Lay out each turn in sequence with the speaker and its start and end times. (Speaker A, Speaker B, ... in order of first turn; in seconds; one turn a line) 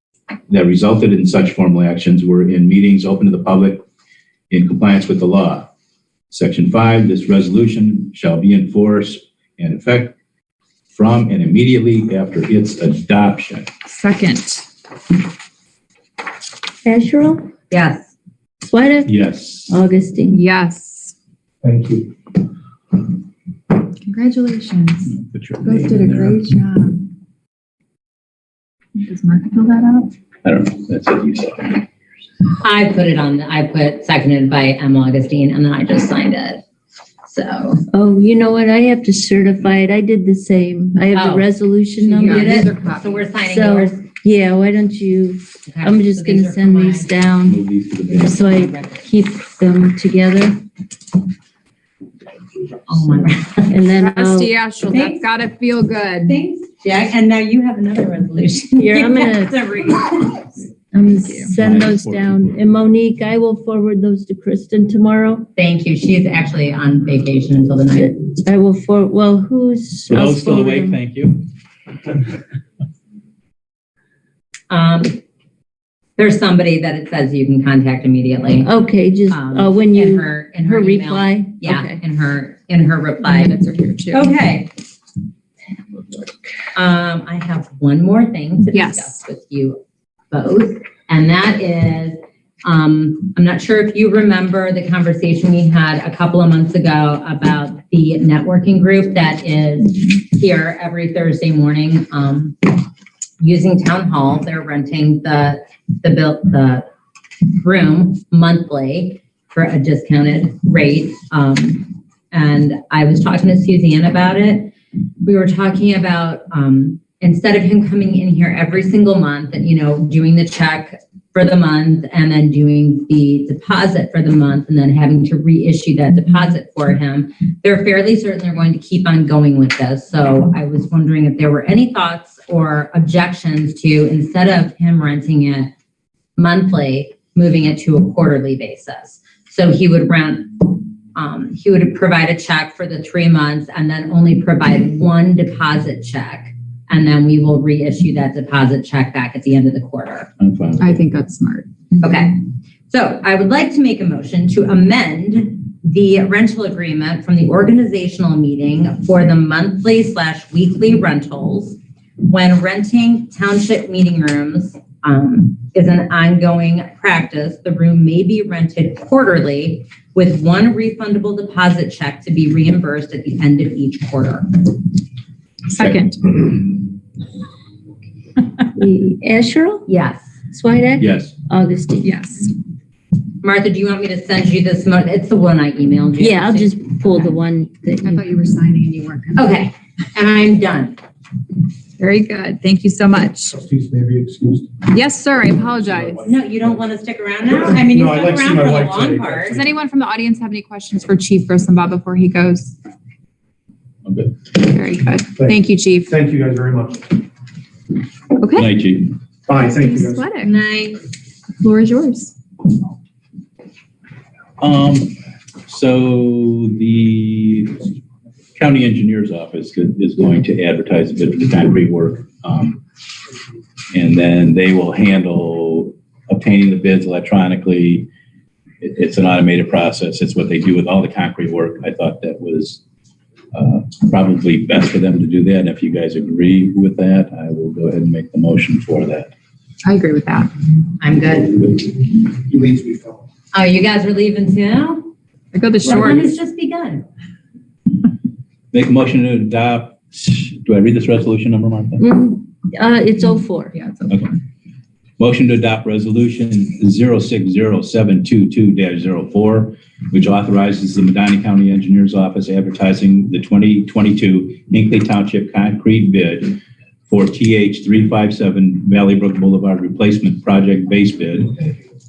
Speaker A: 0.5-3.8
Speaker A: 4.5-5.7
Speaker A: 6.3-10.1
Speaker A: 10.9-13.7
Speaker B: 13.8-14.6
Speaker C: 16.8-17.5
Speaker D: 17.7-18.1
Speaker C: 18.6-19.1
Speaker A: 19.1-19.7
Speaker C: 19.7-20.4
Speaker B: 20.3-21.1
Speaker E: 21.6-22.1
Speaker B: 23.9-25.1
Speaker A: 25.1-26.4
Speaker B: 25.6-27.1
Speaker B: 29.0-30.1
Speaker A: 30.4-31.9
Speaker D: 32.6-36.6
Speaker D: 37.2-37.8
Speaker C: 37.9-42.7
Speaker D: 41.1-41.5
Speaker B: 42.0-43.3
Speaker D: 42.1-44.0
Speaker C: 43.4-47.6
Speaker D: 45.7-47.1
Speaker A: 47.5-48.4
Speaker C: 48.1-50.6
Speaker D: 48.2-49.0
Speaker D: 52.9-53.7
Speaker C: 53.7-54.5
Speaker B: 53.9-56.4
Speaker D: 54.8-55.2
Speaker D: 56.2-60.6
Speaker C: 58.8-59.5
Speaker C: 60.9-65.5
Speaker B: 61.2-61.5
Speaker A: 61.6-62.4
Speaker D: 65.5-68.1
Speaker C: 67.9-71.0
Speaker A: 70.1-71.4
Speaker D: 74.7-75.2
Speaker D: 76.2-78.7
Speaker C: 78.6-82.0
Speaker D: 79.3-83.5
Speaker B: 83.2-84.3
Speaker D: 84.1-84.7
Speaker D: 86.8-89.8
Speaker B: 88.7-89.2
Speaker D: 90.3-102.8
Speaker D: 103.4-106.8
Speaker D: 107.5-114.7
Speaker D: 115.2-135.7
Speaker D: 136.4-150.3
Speaker A: 150.4-150.9
Speaker B: 150.8-151.7
Speaker D: 152.0-174.7
Speaker B: 175.7-176.6
Speaker C: 178.8-179.9
Speaker D: 179.9-180.2
Speaker C: 180.5-182.1
Speaker A: 181.0-181.3
Speaker B: 182.0-182.5
Speaker D: 183.4-186.9
Speaker C: 186.2-188.2
Speaker B: 188.0-189.6
Speaker D: 189.3-191.0
Speaker B: 192.0-193.6
Speaker E: 193.6-194.8
Speaker B: 194.8-196.3
Speaker D: 196.2-199.7
Speaker E: 197.6-199.5
Speaker B: 199.5-202.8
Speaker A: 204.0-204.3
Speaker B: 204.5-206.1
Speaker E: 206.1-207.2
Speaker B: 208.4-208.7
Speaker A: 208.5-209.1
Speaker E: 209.5-210.3
Speaker B: 209.6-210.5
Speaker D: 210.4-211.0
Speaker B: 211.6-212.3
Speaker A: 214.6-217.8
Speaker A: 218.6-222.8
Speaker A: 223.9-228.1
Speaker A: 228.8-232.8
Speaker A: 233.5-239.3
Speaker B: 239.8-240.5
Speaker D: 241.0-241.8
Speaker E: 242.5-243.1
Speaker D: 243.5-245.1
Speaker B: 245.5-246.4
Speaker D: 245.8-247.1
Speaker A: 248.7-252.0
Speaker C: 252.0-253.7
Speaker B: 253.7-254.2
Speaker A: 255.2-271.6